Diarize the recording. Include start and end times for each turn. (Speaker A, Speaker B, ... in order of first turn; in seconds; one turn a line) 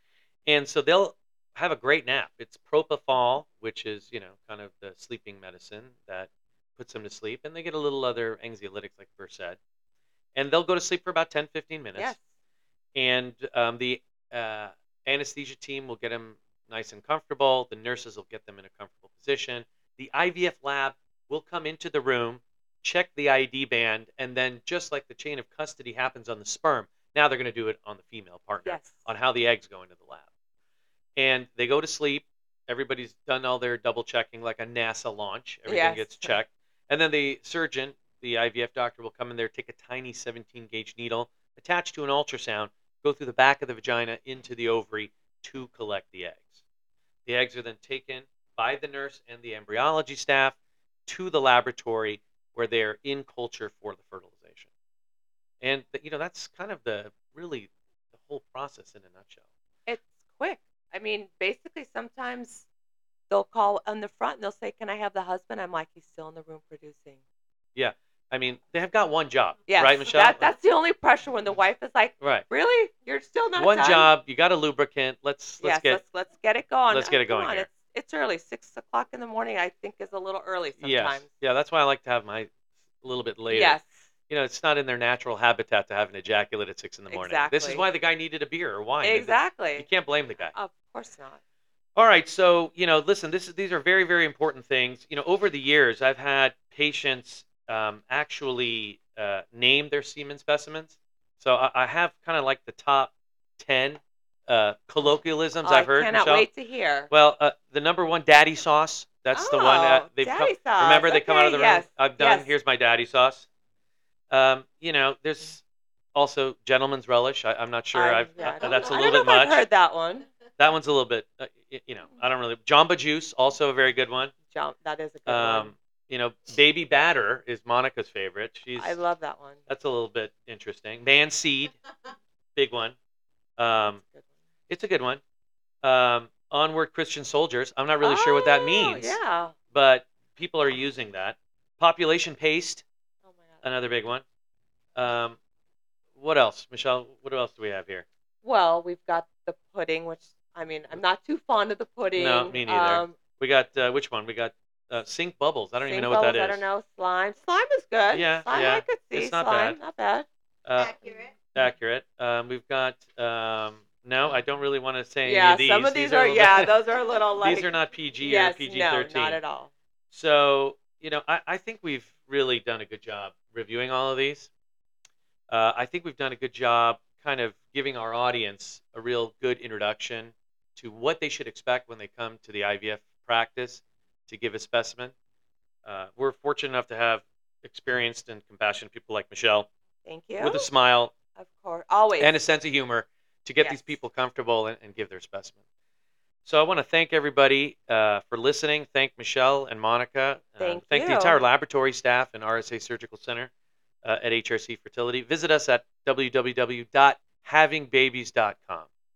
Speaker A: 0.5-9.6
Speaker A: 10.3-12.2
Speaker A: 12.9-30.3
Speaker B: 28.6-29.1
Speaker A: 31.2-46.6
Speaker B: 35.6-36.3
Speaker A: 47.2-54.7
Speaker A: 55.6-59.4
Speaker B: 59.9-62.7
Speaker B: 63.3-67.2
Speaker A: 67.8-70.5
Speaker B: 69.7-74.1
Speaker A: 72.2-72.5
Speaker A: 73.5-76.0
Speaker B: 75.6-81.3
Speaker A: 76.9-77.7
Speaker A: 80.8-82.5
Speaker A: 83.0-90.5
Speaker B: 83.5-83.9
Speaker B: 87.1-87.9
Speaker B: 89.0-89.9
Speaker B: 90.5-91.4
Speaker A: 92.0-106.5
Speaker B: 105.6-107.1
Speaker A: 107.1-113.5
Speaker B: 109.3-112.5
Speaker A: 114.3-115.6
Speaker A: 116.1-119.6
Speaker B: 117.9-120.3
Speaker A: 120.5-124.3
Speaker B: 124.5-125.7
Speaker A: 125.3-129.0
Speaker B: 128.8-129.6
Speaker A: 129.7-131.7
Speaker A: 132.5-132.9
Speaker A: 133.6-134.0
Speaker B: 133.8-134.1
Speaker A: 134.7-135.2
Speaker A: 135.8-142.8
Speaker B: 138.0-139.6
Speaker A: 143.6-144.2
Speaker A: 144.9-145.4
Speaker A: 146.2-148.1
Speaker B: 148.4-153.2
Speaker A: 152.2-156.6
Speaker B: 155.8-160.3
Speaker A: 158.1-159.8
Speaker A: 160.6-166.7
Speaker B: 160.9-161.3
Speaker B: 165.2-169.7
Speaker A: 167.4-169.4
Speaker A: 170.1-174.5
Speaker A: 175.5-185.1
Speaker A: 185.8-189.7
Speaker B: 190.0-190.7
Speaker A: 190.4-191.2
Speaker B: 191.3-192.4
Speaker A: 192.2-195.6
Speaker B: 193.6-193.9
Speaker A: 196.4-203.5
Speaker B: 200.6-201.4
Speaker A: 204.0-208.9